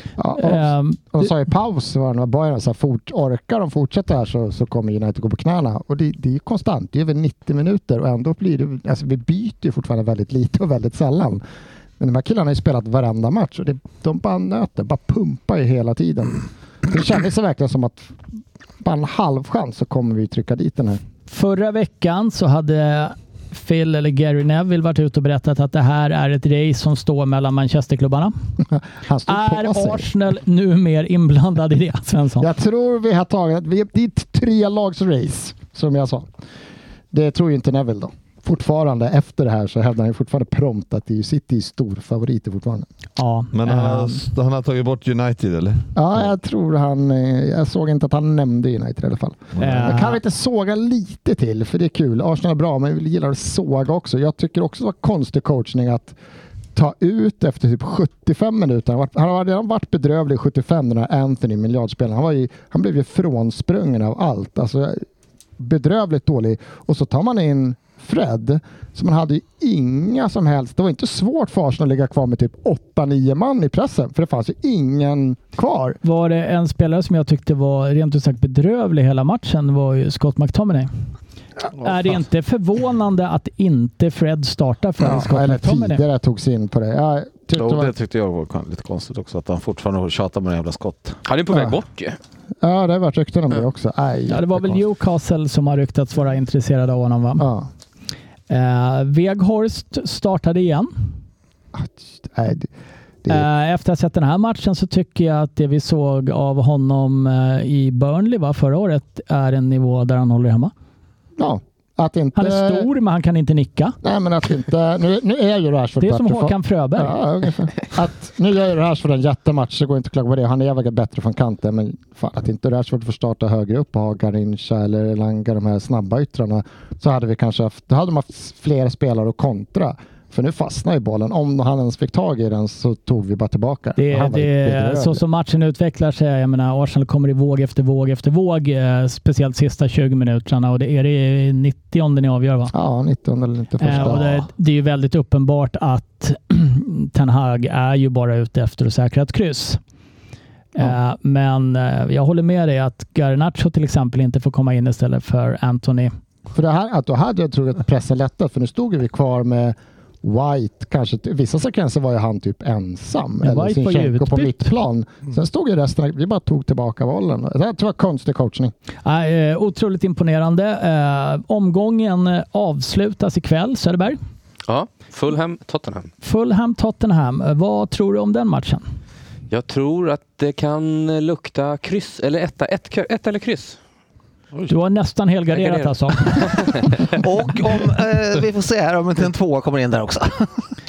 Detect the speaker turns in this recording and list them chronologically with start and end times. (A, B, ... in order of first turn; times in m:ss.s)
0:00.2-0:11.4 A
0:00.4-0:01.3 B
0:12.0-0:18.1 A
0:18.8-0:21.0 A
0:21.3-0:28.3 B
0:28.7-0:30.1 A
0:29.3-0:32.5 B
0:32.4-0:36.3 A
0:37.1-0:42.9 A
0:43.2-0:44.2 B
0:43.5-0:46.3 C
0:46.0-0:56.2 A
0:49.6-0:49.8 C
0:49.6-0:50.2 B
0:56.7-1:05.0 A
1:05.6-1:16.0 A
1:16.0-1:20.9 B
1:21.8-1:26.0 B
1:25.0-1:27.9 A
1:27.5-1:31.2 D
1:31.2-1:32.2 E
1:31.5-1:31.7 A
1:32.6-1:34.8 A
1:34.3-1:37.4 B
1:37.4-1:37.7 A
1:38.5-1:40.9 B
1:41.7-1:42.7 A
1:43.3-1:50.7 B
1:51.4-1:52.9 A
1:52.4-1:54.0 B
1:54.0-2:15.2 A
1:56.0-1:57.2 B
2:14.0-2:22.7 B
2:22.7-2:24.5 A
2:23.8-2:29.8 B
2:30.7-2:36.1 B
2:36.5-2:48.7 A
2:43.4-2:44.7 B
2:49.0-2:54.2 B
2:54.7-2:56.1 E
2:56.2-2:58.8 B
2:59.5-3:03.8 E
3:04.7-3:06.2 B
3:05.5-3:06.9 E
3:07.0-3:10.7 D